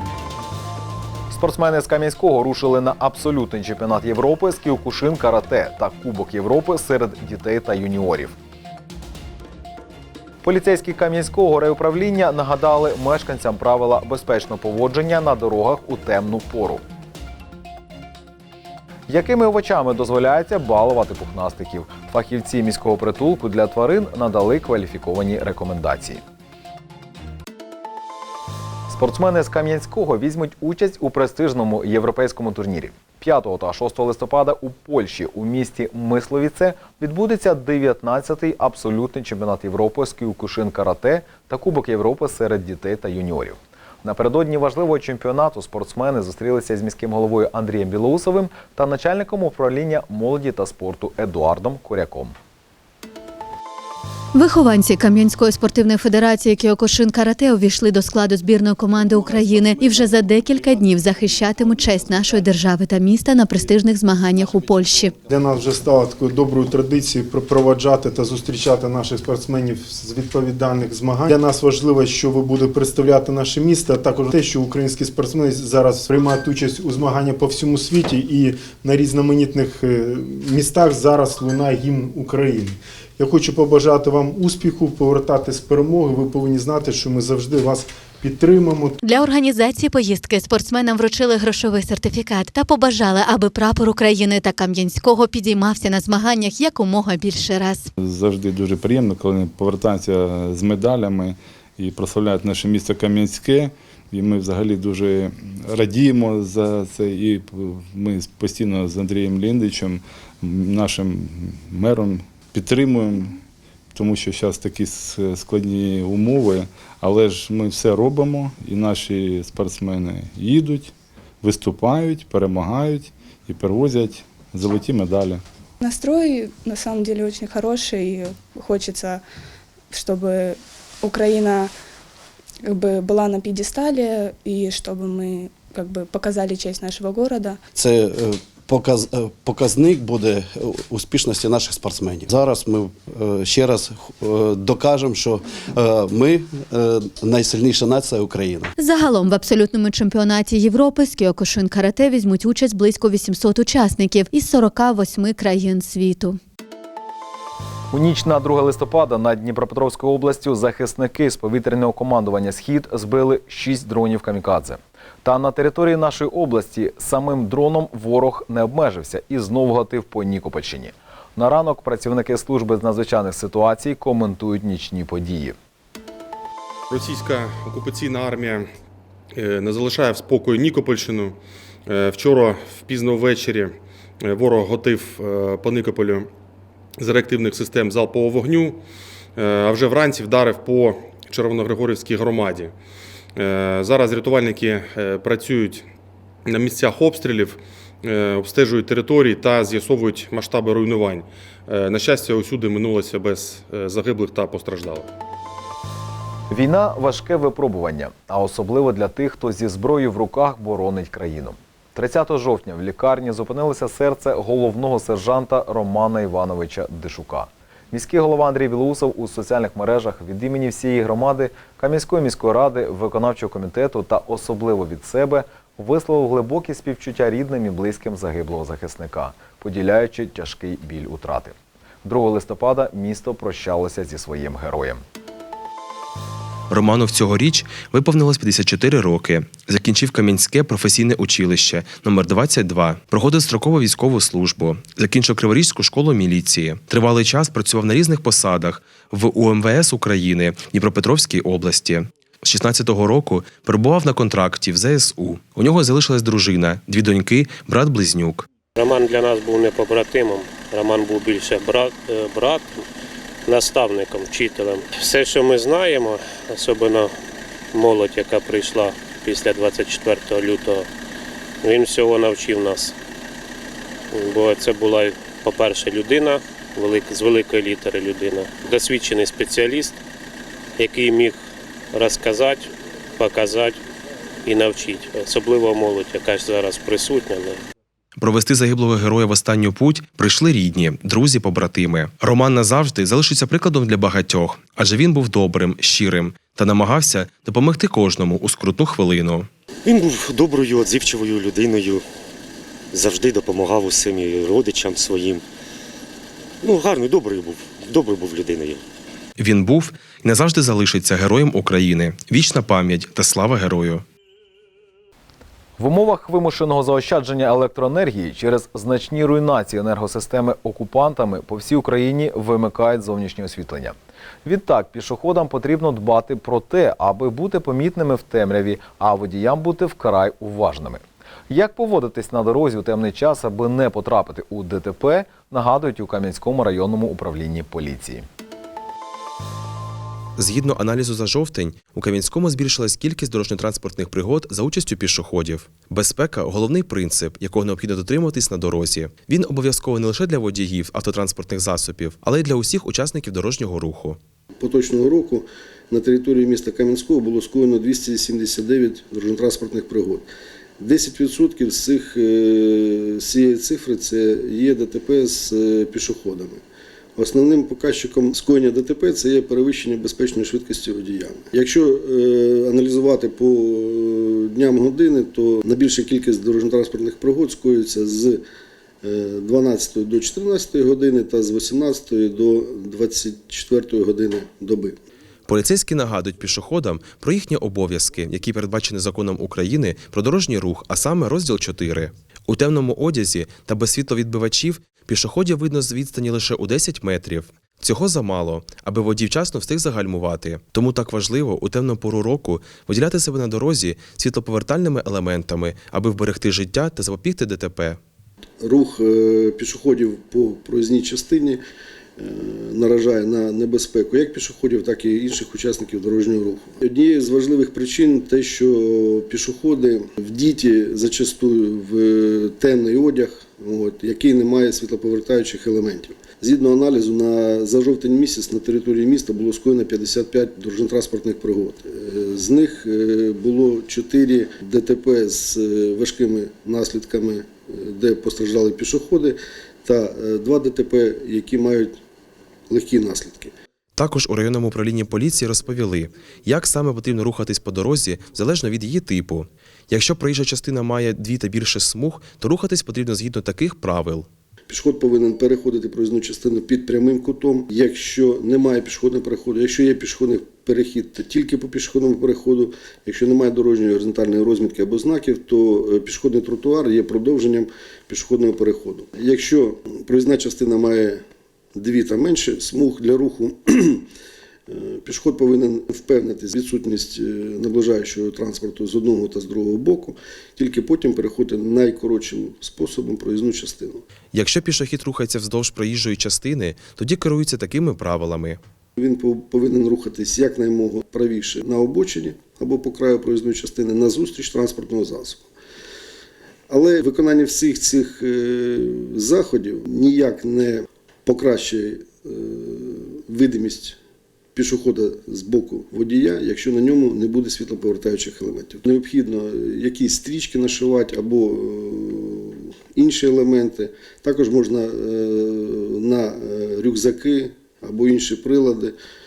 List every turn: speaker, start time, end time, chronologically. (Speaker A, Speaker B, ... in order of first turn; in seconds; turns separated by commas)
Speaker A: 1.3-8.3, Speaker A: 10.4-16.8, Speaker A: 19.1-26.2, Speaker A: 28.9-52.3, Speaker B: 54.3-65.2, Speaker C: 65.3-89.0, Speaker B: 89.0-97.9, Speaker D: 98.0-113.4, Speaker D: 113.9-125.4, Speaker E: 125.8-129.2, Speaker E: 129.9-131.7, Speaker E: 132.6-137.6, Speaker F: 137.8-148.7, Speaker B: 148.8-156.4, Speaker A: 157.9-175.6, Speaker G: 176.9-178.7, Speaker G: 179.3-186.3, Speaker G: 187.0-188.8, Speaker G: 189.4-192.8, Speaker G: 193.4-195.9, Speaker G: 196.5-205.1, Speaker A: 206.5-235.0, Speaker H: 236.7-258.5, Speaker I: 258.8-262.8, Speaker I: 263.4-267.1, Speaker I: 267.7-270.9, Speaker I: 271.6-272.9, Speaker I: 274.1-280.0, Speaker I: 280.8-281.4, Speaker I: 281.9-283.8, Speaker I: 284.4-287.6, Speaker H: 288.2-299.5, Speaker J: 299.8-302.1, Speaker J: 302.9-305.5, Speaker J: 306.6-308.8, Speaker H: 309.4-314.0, Speaker A: 315.8-338.2, Speaker H: 340.4-354.2, Speaker K: 354.6-360.3, Speaker K: 360.8-366.6, Speaker K: 367.2-378.4, Speaker K: 379.0-385.0, Speaker H: 385.5-408.0, Speaker K: 408.6-411.6, Speaker K: 412.2-441.9, Speaker K: 442.7-443.5, Speaker H: 444.0-454.3, Speaker K: 454.7-471.2, Speaker K: 471.8-474.1, Speaker K: 474.7-484.0, Speaker H: 484.3-488.6, Speaker K: 489.0-495.5, Speaker K: 496.7-504.0, Speaker K: 504.6-519.0